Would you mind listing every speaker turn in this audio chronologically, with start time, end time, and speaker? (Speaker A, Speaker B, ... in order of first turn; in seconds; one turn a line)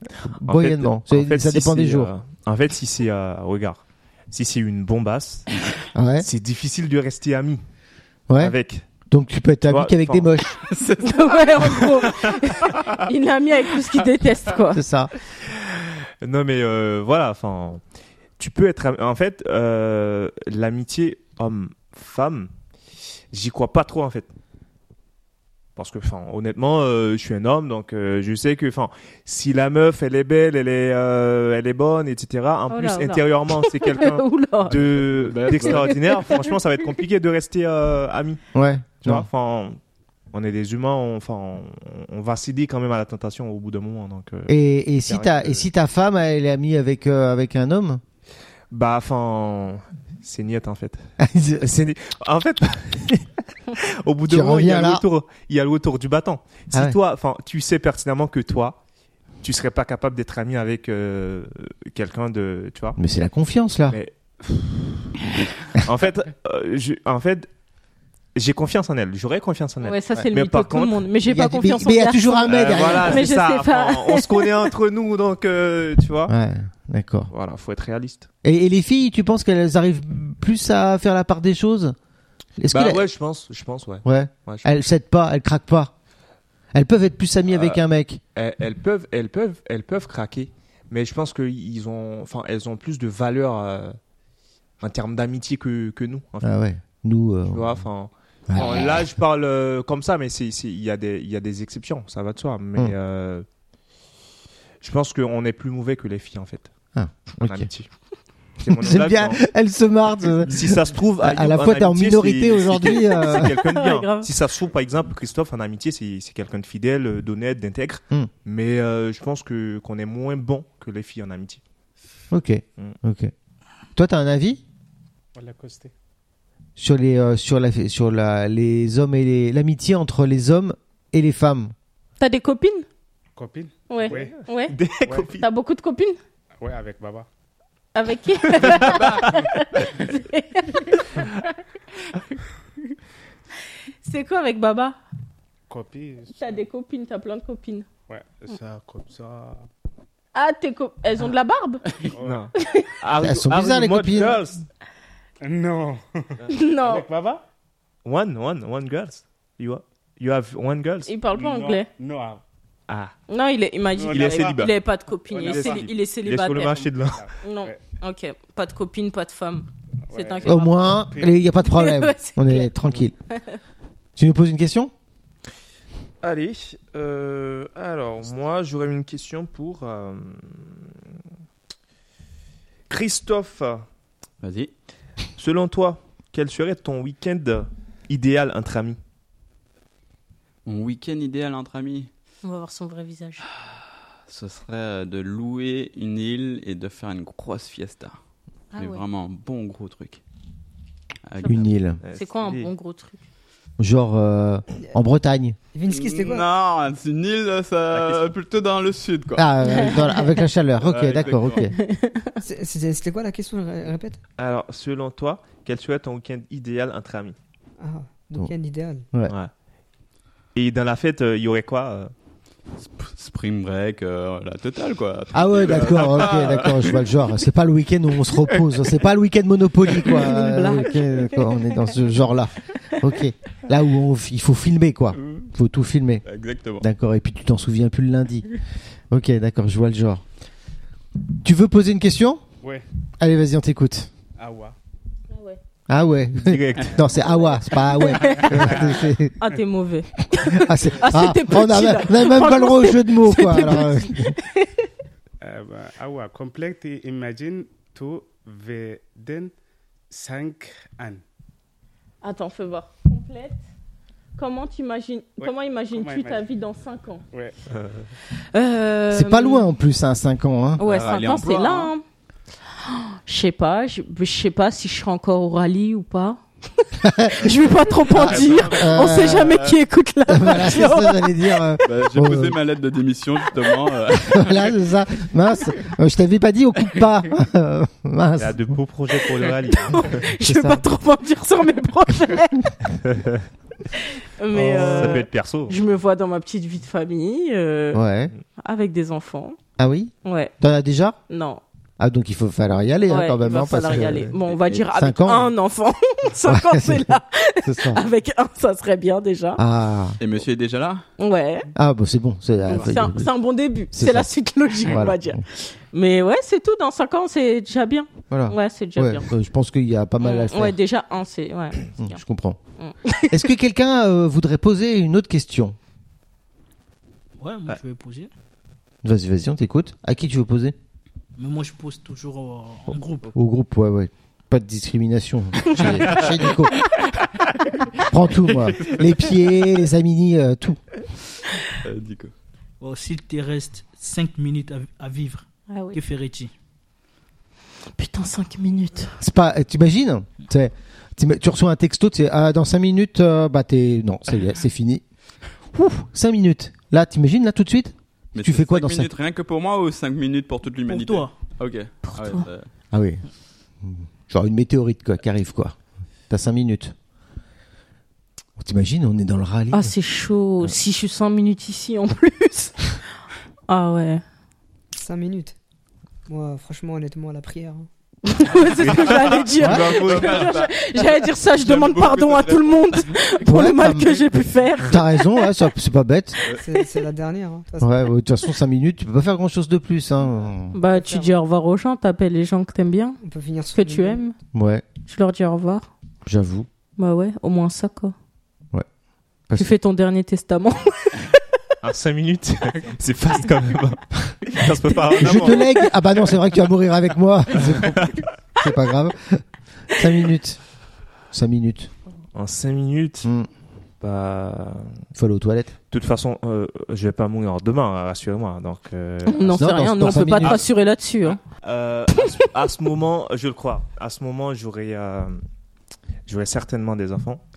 Speaker A: 0.3-5.7
Speaker B: 0.4-2.1
Speaker B: 6.0-6.3
Speaker A: 6.2-7.6
Speaker B: 8.3-8.6
Speaker A: 8.4-8.9
Speaker B: 9.1-10.6
Speaker A: 9.7-10.3
Speaker C: 10.7-12.3
Speaker D: 11.0-14.8
Speaker B: 14.7-15.1
Speaker A: 15.5-17.8
Speaker A: 18.4-22.5
Speaker A: 23.3-24.3
Speaker A: 25.8-38.4
Speaker D: 32.7-34.8
Speaker C: 34.9-35.9
Speaker D: 35.5-36.5
Speaker B: 38.5-39.3
Speaker A: 39.0-39.8
Speaker A: 40.3-44.5
Speaker B: 44.5-48.0
Speaker A: 45.1-45.7
Speaker A: 48.7-51.0
Speaker B: 51.2-51.7
Speaker A: 51.6-58.8
Speaker B: 54.3-55.0
Speaker A: 59.4-63.0
Speaker B: 63.0-64.0
Speaker A: 63.9-65.1
Speaker A: 65.7-67.5
Speaker A: 68.3-71.1
Speaker D: 69.8-74.6
Speaker B: 71.3-73.3
Speaker A: 72.5-76.3
Speaker B: 76.3-77.3
Speaker A: 77.3-78.3
Speaker B: 78.4-82.0
Speaker B: 82.6-83.0
Speaker A: 82.7-84.7
Speaker B: 84.0-85.9
Speaker B: 86.7-88.2
Speaker A: 87.5-87.8
Speaker A: 88.3-94.0
Speaker A: 94.8-96.5
Speaker B: 96.4-97.8
Speaker A: 97.5-103.5
Speaker B: 98.5-99.0
Speaker A: 104.8-106.7
Speaker B: 107.0-107.7
Speaker A: 107.4-107.9
Speaker A: 108.6-109.4
Speaker B: 108.7-113.5
Speaker A: 110.5-121.6
Speaker D: 113.0-114.3
Speaker B: 122.3-123.3
Speaker B: 124.0-124.6
Speaker E: 125.4-125.9
Speaker B: 126.8-131.7
Speaker D: 132.2-132.9
Speaker E: 133.3-134.4
Speaker D: 133.9-134.8
Speaker A: 134.1-135.5
Speaker E: 135.1-135.3
Speaker D: 135.4-136.2
Speaker E: 136.6-137.3
Speaker D: 137.9-141.4
Speaker E: 138.7-139.0
Speaker D: 144.0-145.0
Speaker E: 145.7-146.6
Speaker D: 146.3-147.9
Speaker E: 148.1-149.7
Speaker D: 150.3-151.9
Speaker E: 152.0-152.5
Speaker A: 152.2-154.7
Speaker D: 152.6-152.9
Speaker B: 153.2-154.4
Speaker E: 155.4-157.4
Speaker D: 156.5-157.1
Speaker A: 158.1-161.1
Speaker D: 161.1-161.9
Speaker E: 161.3-162.4
Speaker A: 162.9-163.1
Speaker D: 163.3-166.9
Speaker E: 163.9-164.7
Speaker A: 164.1-164.7
Speaker C: 164.3-164.7
Speaker E: 165.3-165.9
Speaker A: 165.3-167.3
Speaker E: 166.7-167.9
Speaker D: 167.4-170.9
Speaker E: 170.1-171.5
Speaker B: 170.4-173.2
Speaker D: 171.6-172.7
Speaker B: 174.2-174.9
Speaker A: 176.2-180.8
Speaker A: 182.9-183.9
Speaker C: 184.4-184.7
Speaker A: 185.4-189.0
Speaker C: 190.7-192.1
Speaker D: 192.4-193.5
Speaker C: 194.3-198.2
Speaker D: 198.7-199.0
Speaker C: 198.8-200.2
Speaker C: 201.3-201.7
Speaker D: 201.4-203.2
Speaker B: 201.4-202.0
Speaker A: 202.0-202.7
Speaker B: 203.8-205.6
Speaker F: 205.7-206.5
Speaker C: 205.9-209.8
Speaker A: 207.9-208.3
Speaker B: 209.4-211.8
Speaker D: 209.6-210.4
Speaker C: 210.8-211.6
Speaker D: 211.6-212.4
Speaker F: 212.4-214.2
Speaker A: 214.4-217.4
Speaker F: 217.8-219.1
Speaker A: 220.6-222.1
Speaker C: 222.8-227.1
Speaker B: 225.3-236.2
Speaker D: 230.1-232.0
Speaker C: 235.1-235.5
Speaker C: 236.3-236.8
Speaker B: 236.8-238.5
Speaker B: 239.1-240.2
Speaker B: 241.4-242.4
Speaker B: 243.2-244.1
Speaker E: 244.4-244.8
Speaker D: 245.3-245.6
Speaker B: 245.9-249.4
Speaker A: 246.4-247.1
Speaker D: 247.5-248.8
Speaker E: 248.6-248.9
Speaker D: 249.4-254.8
Speaker B: 250.5-254.3
Speaker E: 255.4-259.5
Speaker E: 260.1-261.2
Speaker D: 262.2-263.6
Speaker D: 264.4-267.2
Speaker E: 265.4-266.5
Speaker E: 267.3-267.6
Speaker A: 267.7-268.1
Speaker D: 268.5-269.7
Speaker B: 269.1-270.8
Speaker D: 270.8-272.0
Speaker C: 270.8-271.9
Speaker D: 272.9-281.8
Speaker B: 277.0-277.5
Speaker B: 278.1-279.6
Speaker C: 278.1-279.8
Speaker B: 280.3-282.6
Speaker C: 281.8-284.7
Speaker B: 284.2-288.7
Speaker A: 288.4-290.3
Speaker D: 289.3-292.6
Speaker B: 290.4-290.8
Speaker A: 293.0-293.4
Speaker D: 294.0-298.0
Speaker B: 294.5-295.2
Speaker A: 294.8-295.8
Speaker B: 297.9-298.3
Speaker D: 298.6-299.6
Speaker B: 299.8-301.2
Speaker D: 300.2-300.5
Speaker D: 301.3-301.6
Speaker B: 302.0-304.3
Speaker D: 303.1-309.6
Speaker C: 304.5-304.9
Speaker B: 304.9-305.5
Speaker B: 306.5-308.0
Speaker B: 309.6-310.2
Speaker C: 310.2-311.1
Speaker D: 311.2-311.7
Speaker B: 311.8-313.3
Speaker D: 312.7-319.3
Speaker B: 313.9-314.3
Speaker B: 314.8-315.4
Speaker B: 318.3-320.8
Speaker D: 320.2-322.2
Speaker B: 322.0-322.6
Speaker D: 322.8-323.5
Speaker B: 323.3-325.8
Speaker G: 327.4-328.3
Speaker B: 329.0-330.8
Speaker G: 331.4-333.3
Speaker B: 333.3-336.7
Speaker C: 335.9-336.5
Speaker B: 338.1-340.8
Speaker C: 338.6-339.2
Speaker C: 341.9-342.3
Speaker G: 342.8-346.5
Speaker D: 345.7-346.0
Speaker D: 348.0-349.2
Speaker B: 349.2-355.0
Speaker B: 355.7-359.1
Speaker C: 358.4-362.7
Speaker G: 360.9-361.4
Speaker D: 362.0-362.5
Speaker B: 362.9-363.2
Speaker B: 363.8-365.8
Speaker B: 366.3-366.9
Speaker B: 368.6-369.9
Speaker D: 369.7-372.8
Speaker D: 373.7-374.2
Speaker F: 375.0-375.6
Speaker F: 376.3-377.9
Speaker D: 378.2-385.6
Speaker A: 378.8-380.5
Speaker C: 378.9-379.4
Speaker B: 379.6-379.9
Speaker C: 380.0-380.7
Speaker C: 381.6-383.1
Speaker B: 383.4-384.2
Speaker B: 384.8-386.4
Speaker F: 386.6-388.1
Speaker B: 387.8-390.7
Speaker D: 390.7-393.2
Speaker F: 390.9-391.4
Speaker F: 393.2-394.2
Speaker D: 393.7-394.4
Speaker B: 394.5-394.9
Speaker D: 395.1-395.9
Speaker B: 396.3-396.7
Speaker D: 397.0-398.1
Speaker D: 399.5-401.3
Speaker A: 401.8-405.7
Speaker B: 405.2-410.6
Speaker A: 407.6-408.2
Speaker B: 411.3-411.9
Speaker A: 412.3-413.3
Speaker A: 414.0-414.9
Speaker B: 415.1-415.7
Speaker A: 415.9-420.7
Speaker D: 419.3-421.4
Speaker B: 419.5-420.6
Speaker A: 421.5-425.4
Speaker D: 422.2-422.5
Speaker A: 426.3-427.4